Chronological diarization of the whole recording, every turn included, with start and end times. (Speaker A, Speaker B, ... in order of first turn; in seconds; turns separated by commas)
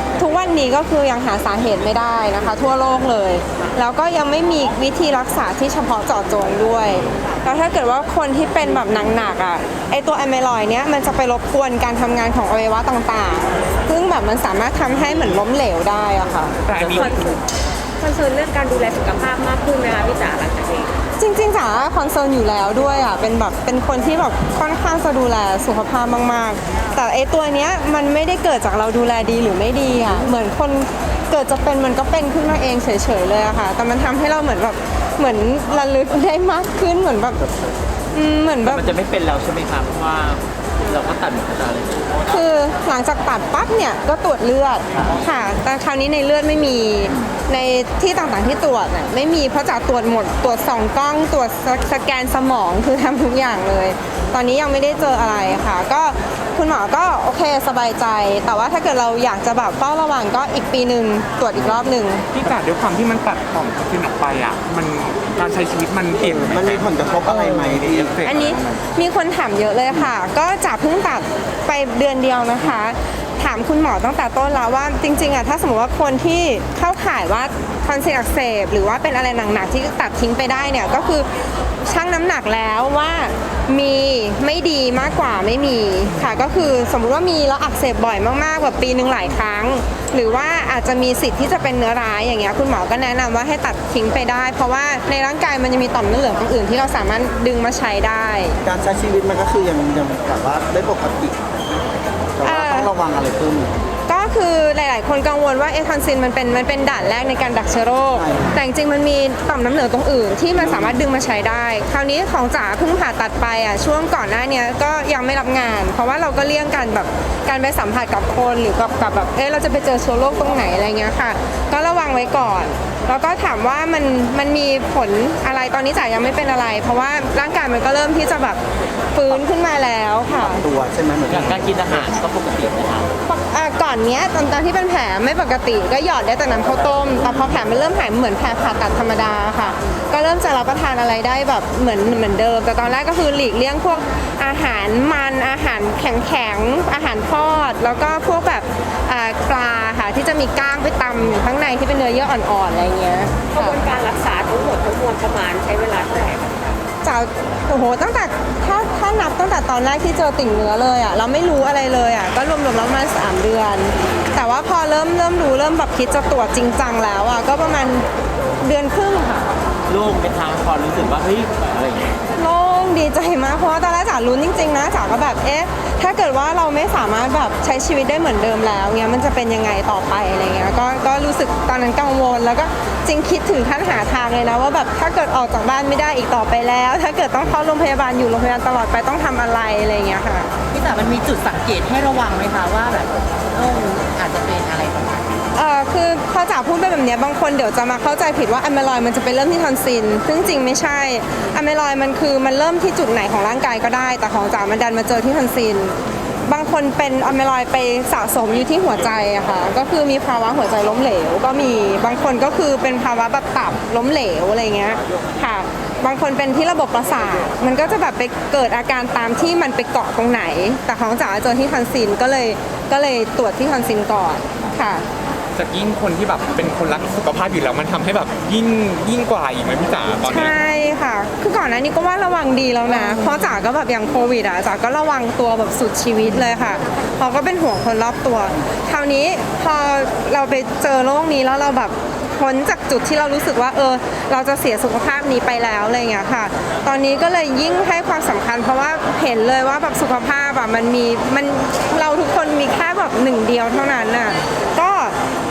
Speaker A: 0.1-16.6, Speaker B: 16.6-17.1, Speaker C: 16.7-17.1, Speaker D: 16.9-17.4, Speaker D: 18.0-20.9, Speaker A: 21.2-37.4, Speaker A: 38.1-38.9, Speaker C: 38.6-42.1, Speaker A: 42.3-62.3, Speaker B: 62.3-68.8, Speaker E: 66.4-68.1, Speaker A: 68.2-81.3, Speaker A: 81.8-98.6, Speaker E: 98.6-101.4, Speaker E: 102.4-103.7, Speaker A: 102.4-102.9, Speaker A: 104.1-128.6, Speaker E: 108.1-108.5, Speaker E: 110.6-111.0, Speaker A: 129.1-130.7, Speaker E: 130.3-131.7, Speaker C: 131.3-133.1, Speaker A: 133.2-153.8, Speaker D: 153.5-156.6, Speaker A: 157.0-168.1, Speaker A: 168.6-169.5, Speaker C: 169.9-172.2, Speaker A: 172.3-190.5, Speaker F: 190.7-195.4, Speaker A: 195.5-225.0, Speaker B: 225.5-230.6, Speaker A: 230.3-255.2